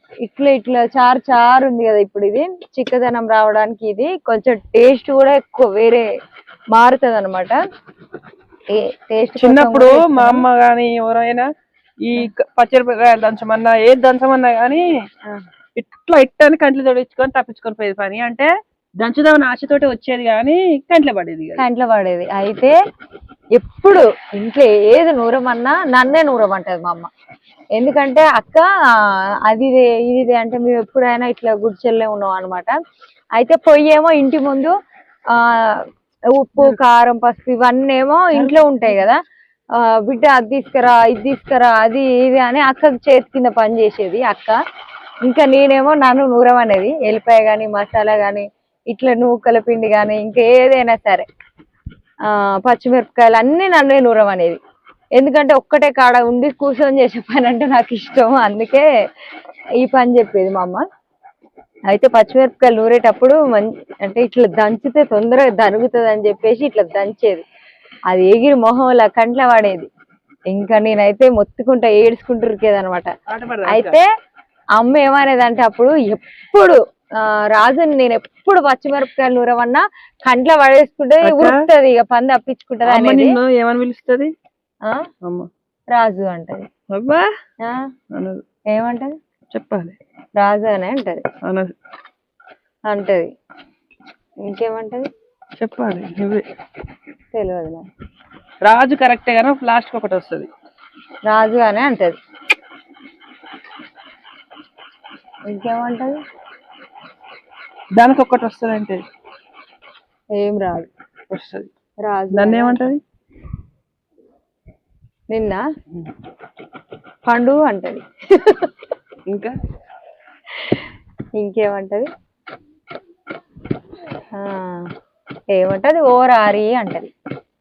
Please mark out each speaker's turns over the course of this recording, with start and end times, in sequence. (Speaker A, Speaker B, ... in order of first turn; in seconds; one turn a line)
Speaker A: 0.2-6.1
Speaker A: 6.7-7.6
Speaker A: 8.7-10.4
Speaker B: 9.4-11.5
Speaker B: 12.0-14.9
Speaker B: 15.8-21.6
Speaker A: 21.6-22.8
Speaker A: 23.6-27.1
Speaker A: 27.8-32.8
Speaker A: 33.4-34.8
Speaker A: 35.3-39.2
Speaker B: 38.3-39.1
Speaker A: 39.8-44.6
Speaker A: 45.2-51.2
Speaker A: 52.3-54.6
Speaker A: 55.2-58.9
Speaker A: 59.8-60.9
Speaker A: 61.9-67.5
Speaker A: 68.1-69.9
Speaker A: 70.5-73.1
Speaker B: 73.3-74.0
Speaker A: 73.7-74.1
Speaker A: 74.8-83.4
Speaker B: 81.2-81.6
Speaker B: 82.9-84.3
Speaker B: 85.2-85.5
Speaker A: 85.9-86.7
Speaker B: 86.9-87.3
Speaker A: 87.6-87.9
Speaker B: 88.1-88.4
Speaker A: 88.7-89.2
Speaker B: 89.5-90.0
Speaker A: 90.4-91.2
Speaker B: 91.4-91.7
Speaker A: 92.9-93.3
Speaker A: 94.4-95.1
Speaker B: 95.6-96.5
Speaker A: 97.3-97.9
Speaker B: 98.6-100.5
Speaker A: 101.3-102.2
Speaker A: 105.5-106.2
Speaker B: 108.0-109.0
Speaker A: 110.4-110.9
Speaker B: 111.3-111.7
Speaker A: 112.0-112.9
Speaker B: 112.3-113.0
Speaker A: 115.3-115.7
Speaker A: 117.2-118.7
Speaker B: 119.3-119.5
Speaker A: 121.4-122.1
Speaker A: 124.3-124.9
Speaker A: 125.5-127.1